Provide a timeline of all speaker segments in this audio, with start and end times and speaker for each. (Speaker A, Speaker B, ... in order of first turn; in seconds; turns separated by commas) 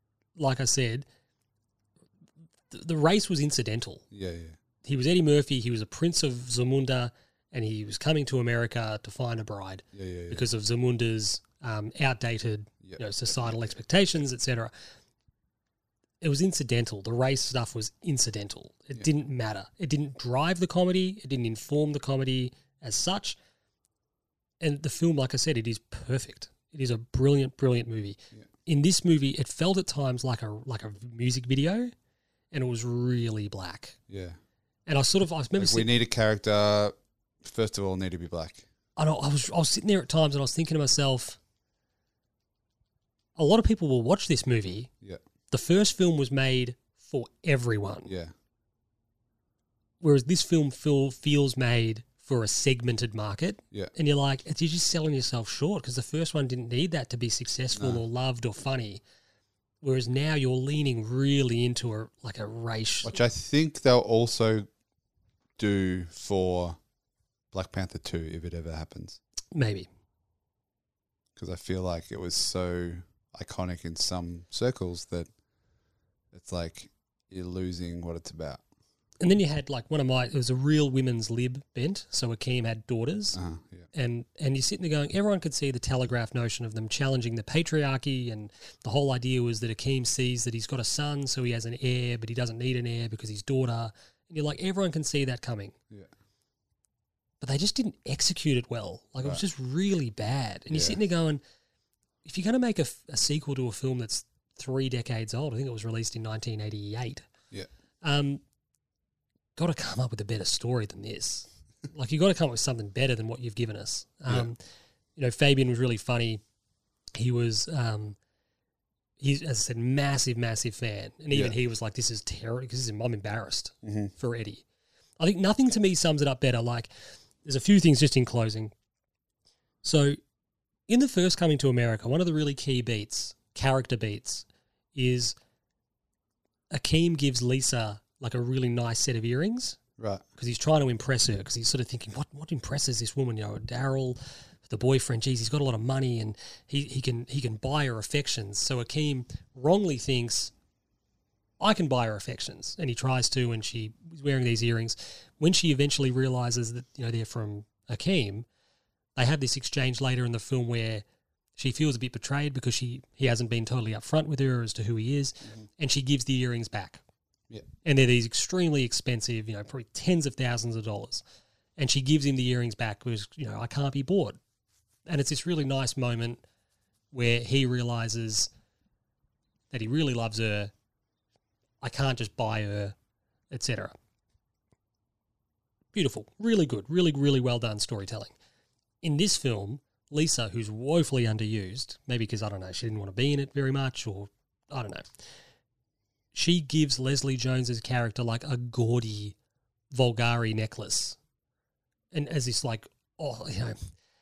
Speaker A: 0.4-1.1, Speaker A: 2.7-4.0, Speaker B: 4.1-4.6, Speaker A: 4.8-14.7, Speaker B: 9.9-10.4, Speaker B: 12.8-13.8, Speaker A: 16.2-23.4, Speaker A: 24.6-31.9, Speaker A: 32.5-34.0, Speaker B: 34.1-34.4, Speaker A: 34.9-35.9, Speaker B: 35.6-38.7, Speaker A: 39.0-41.4, Speaker A: 43.4-44.9, Speaker A: 45.5-48.1, Speaker B: 48.1-48.3, Speaker A: 50.0-59.0, Speaker B: 57.7-58.0, Speaker A: 59.8-63.1, Speaker B: 63.0-64.7, Speaker B: 65.6-66.8, Speaker B: 67.5-69.2, Speaker A: 69.5-69.9, Speaker B: 71.4-75.3, Speaker B: 76.3-78.6, Speaker A: 79.2-83.4, Speaker B: 83.3-83.9, Speaker A: 83.9-95.8, Speaker A: 97.4-101.4, Speaker B: 100.7-101.0, Speaker A: 102.2-107.3, Speaker A: 108.0-108.4, Speaker A: 109.6-114.6, Speaker A: 115.2-116.4, Speaker A: 117.2-118.2, Speaker A: 119.2-124.6, Speaker B: 123.8-124.1, Speaker A: 125.2-126.9, Speaker A: 127.4-128.7, Speaker A: 129.8-130.2, Speaker A: 130.9-135.4, Speaker A: 136.7-139.8, Speaker B: 140.0-140.2, Speaker A: 140.4-150.5, Speaker A: 151.6-158.5, Speaker A: 159.2-161.0, Speaker A: 161.6-167.0, Speaker A: 167.8-171.2, Speaker A: 171.8-174.4, Speaker A: 175.1-176.4, Speaker A: 177.1-178.5, Speaker A: 179.7-180.7, Speaker A: 181.8-183.0, Speaker A: 183.5-183.9, Speaker A: 185.9-188.3, Speaker A: 189.0-195.1, Speaker A: 196.3-199.3, Speaker A: 199.9-201.2, Speaker A: 202.1-203.8